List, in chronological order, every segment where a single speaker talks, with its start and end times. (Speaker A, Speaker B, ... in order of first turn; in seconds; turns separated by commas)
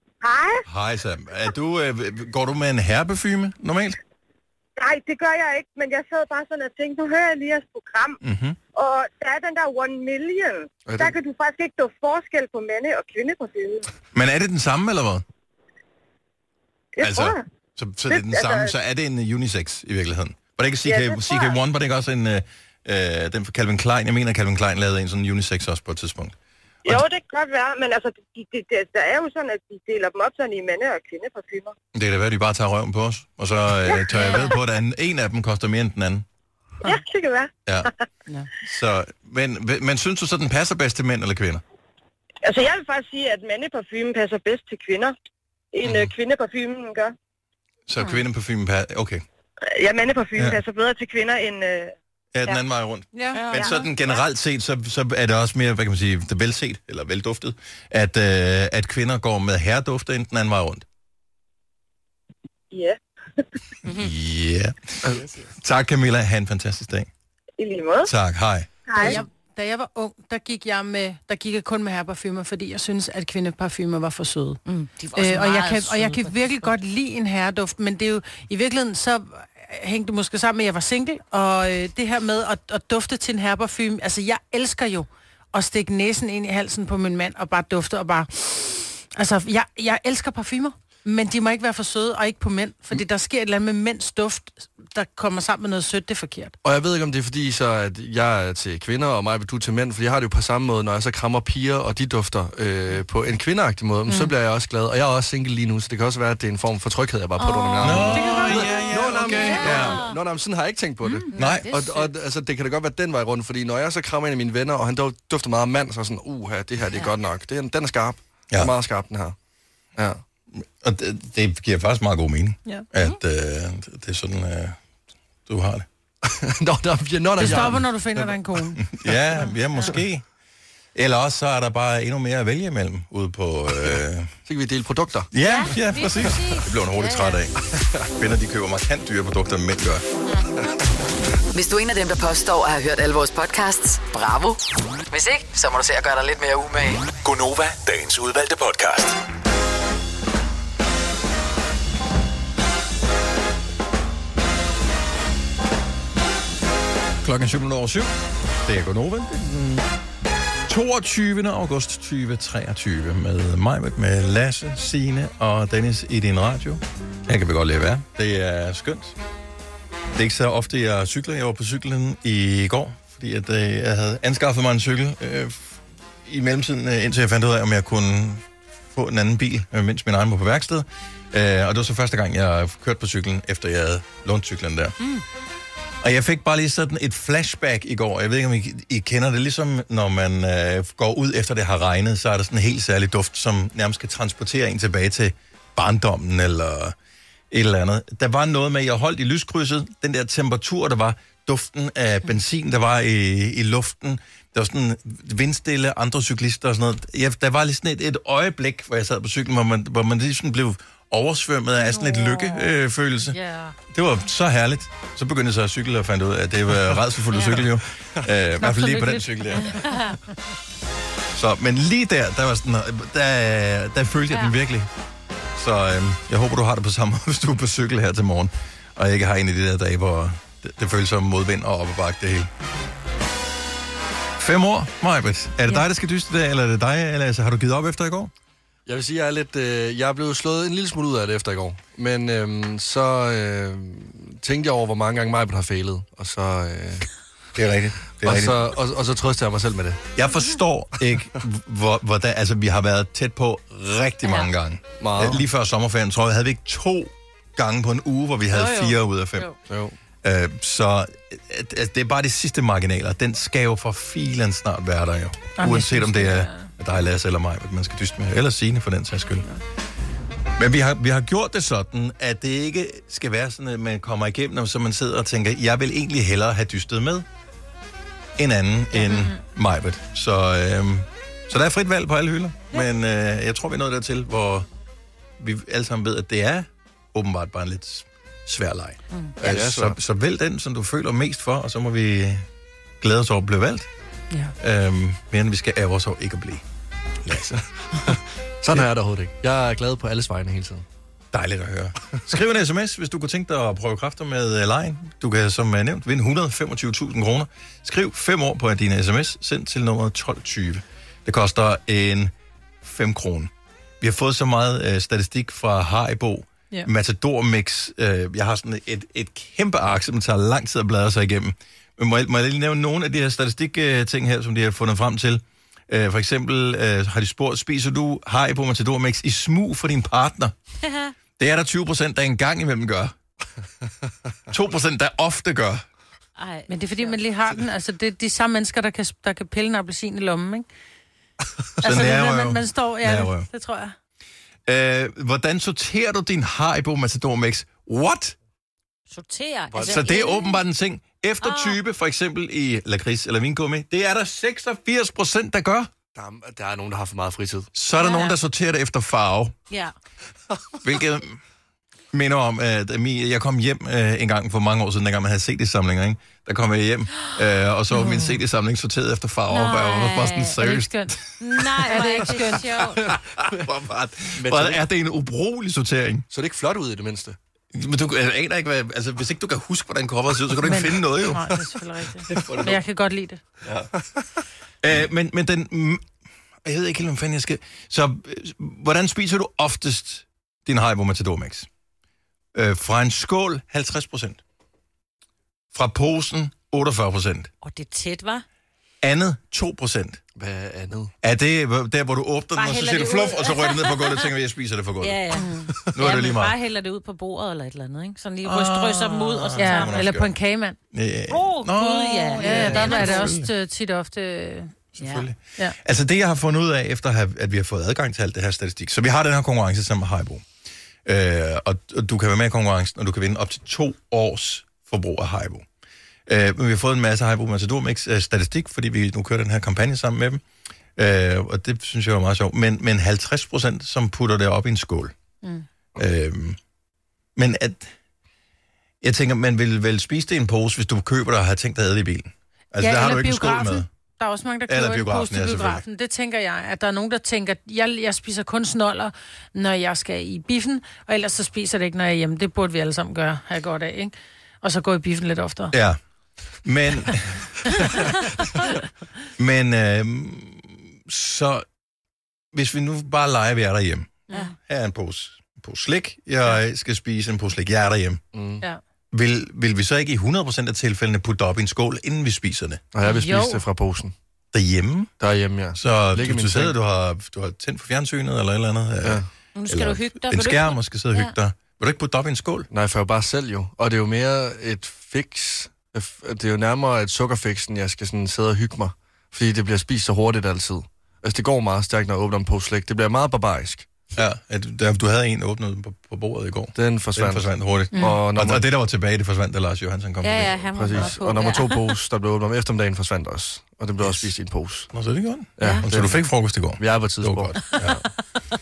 Speaker A: 0.2-0.6, Speaker B: 0.7-4.0, Speaker A: 4.8-8.2, Speaker B: 8.2-8.6, Speaker A: 8.8-13.9, Speaker C: 10.9-11.2, Speaker B: 14.1-15.2, Speaker A: 17.0-17.4, Speaker B: 17.0-26.4, Speaker A: 18.1-18.7, Speaker A: 20.9-21.6, Speaker A: 26.9-31.8, Speaker B: 31.9-36.3, Speaker A: 34.2-34.5, Speaker A: 36.8-37.9, Speaker B: 38.6-41.6, Speaker A: 42.4-45.1, Speaker A: 45.7-47.1, Speaker B: 45.8-46.1, Speaker B: 47.9-49.2, Speaker A: 49.7-51.9, Speaker B: 52.3-60.9, Speaker D: 53.1-53.5, Speaker E: 53.3-53.7, Speaker A: 62.7-63.0, Speaker B: 63.9-67.1, Speaker A: 67.6-68.1, Speaker B: 68.0-68.7, Speaker A: 68.9-69.2, Speaker D: 69.0-74.6, Speaker E: 74.7-76.7, Speaker D: 75.2-96.5, Speaker C: 96.6-119.4, Speaker D: 104.1-104.3, Speaker E: 107.4-110.2, Speaker B: 107.8-110.1, Speaker D: 108.2-108.6, Speaker E: 111.3-112.1, Speaker B: 111.4-111.7, Speaker C: 120.0-120.2, Speaker B: 120.5-124.8, Speaker B: 125.5-125.9, Speaker C: 126.2-128.3, Speaker D: 127.4-128.8, Speaker B: 127.4-127.8, Speaker B: 128.8-130.2, Speaker B: 130.9-134.3, Speaker C: 133.8-135.3, Speaker B: 135.3-137.6, Speaker E: 135.4-137.4, Speaker B: 138.1-140.0, Speaker F: 141.5-147.1, Speaker G: 147.2-149.2, Speaker B: 157.2-159.9, Speaker B: 160.7-169.2, Speaker B: 170.1-184.9, Speaker B: 186.0-196.9, Speaker B: 197.5-213.4, Speaker D: 213.3-213.8, Speaker B: 213.9-219.8, Speaker E: 217.3-217.6, Speaker D: 218.6-219.3, Speaker E: 219.6-220.2, Speaker B: 221.3-224.9, Speaker B: 225.6-232.5, Speaker B: 234.4-238.3, Speaker C: 238.9-247.1, Speaker B: 247.6-248.7, Speaker C: 248.2-250.0, Speaker B: 250.2-259.5, Speaker C: 255.0-255.4, Speaker D: 258.6-258.9, Speaker C: 259.7-260.0, Speaker B: 260.2-269.5, Speaker D: 265.6-266.7, Speaker B: 270.6-277.3, Speaker B: 278.4-284.7, Speaker D: 279.0-279.3, Speaker B: 285.4-292.5, Speaker C: 289.4-290.0, Speaker B: 293.0-293.9, Speaker B: 294.6-296.6, Speaker B: 297.2-297.6, Speaker C: 297.5-300.9, Speaker B: 301.3-330.6, Speaker E: 330.8-331.1, Speaker B: 331.4-333.1, Speaker B: 334.5-335.9, Speaker E: 336.4-337.2, Speaker D: 336.7-340.7, Speaker B: 341.8-343.5, Speaker D: 341.8-343.9, Speaker B: 344.7-348.4, Speaker E: 349.1-350.6, Speaker C: 349.7-350.0, Speaker B: 349.8-355.9, Speaker E: 351.4-351.8, Speaker C: 356.1-357.7, Speaker B: 357.8-359.6, Speaker E: 358.0-358.4, Speaker E: 359.7-359.9, Speaker B: 360.8-361.4, Speaker B: 362.1-371.9, Speaker E: 369.5-370.8, Speaker D: 370.6-371.1, Speaker E: 371.4-373.0, Speaker D: 371.9-372.9, Speaker C: 373.0-373.6, Speaker B: 373.1-376.3, Speaker C: 374.3-374.8, Speaker C: 376.3-377.4, Speaker B: 377.7-381.5, Speaker D: 380.6-383.4, Speaker B: 382.3-382.8, Speaker C: 382.3-382.6, Speaker B: 383.6-383.9, Speaker B: 384.8-386.0, Speaker B: 386.6-391.7, Speaker B: 392.5-394.4, Speaker B: 395.7-397.5, Speaker E: 397.6-398.4, Speaker B: 399.0-400.2, Speaker C: 400.4-401.1, Speaker B: 401.2-405.3, Speaker E: 402.6-404.3, Speaker E: 405.0-410.0, Speaker D: 405.3-405.7, Speaker B: 405.9-406.6, Speaker B: 408.4-410.3, Speaker D: 409.6-410.8, Speaker B: 410.9-413.5, Speaker E: 411.3-413.3, Speaker D: 412.4-414.7, Speaker B: 414.9-420.4, Speaker E: 415.0-415.3, Speaker B: 421.1-425.6, Speaker B: 426.3-430.4, Speaker B: 431.0-435.1, Speaker B: 436.0-436.6, Speaker B: 437.4-437.9, Speaker B: 439.0-443.9, Speaker D: 442.8-455.8, Speaker B: 444.7-445.8, Speaker B: 455.7-456.0, Speaker B: 456.6-457.5, Speaker B: 459.4-461.6, Speaker B: 462.5-468.2, Speaker C: 468.3-468.6, Speaker B: 469.1-472.8, Speaker C: 472.9-474.1, Speaker D: 473.1-473.6, Speaker B: 474.5-475.1, Speaker C: 475.2-476.8, Speaker B: 475.7-482.7, Speaker E: 479.6-481.3, Speaker C: 482.7-493.9, Speaker B: 494.1-501.1, Speaker C: 496.8-498.6, Speaker E: 500.2-501.9, Speaker C: 500.8-504.9, Speaker B: 504.0-504.3, Speaker B: 504.9-508.0, Speaker C: 505.6-508.1, Speaker E: 505.6-505.9